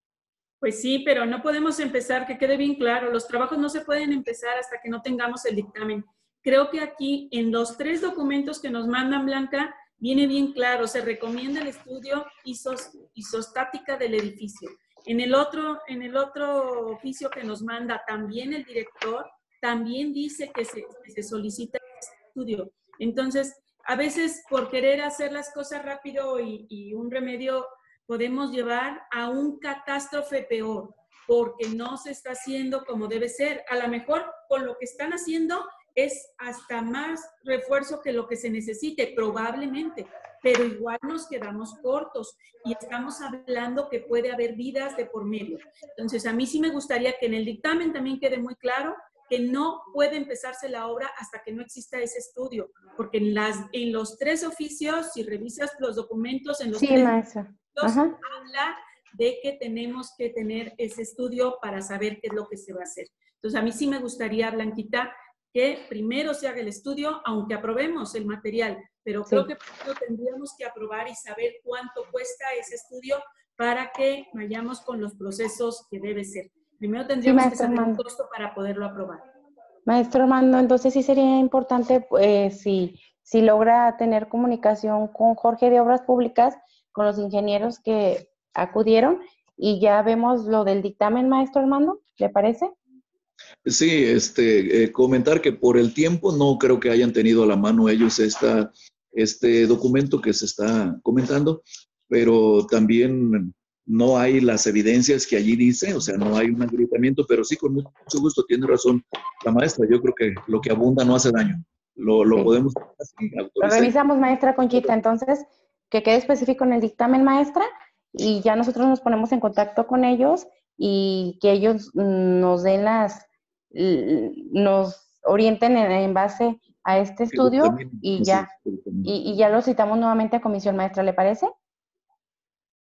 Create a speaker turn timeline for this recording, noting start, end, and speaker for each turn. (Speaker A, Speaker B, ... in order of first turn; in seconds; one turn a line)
Speaker A: 0.6-57.1
Speaker B: 56.8-58.2
Speaker A: 57.8-79.2
Speaker B: 77.2-78.0
Speaker B: 79.9-92.7
Speaker C: 93.7-113.9
Speaker B: 113.6-128.5
Speaker C: 127.3-129.1
Speaker B: 129.0-131.5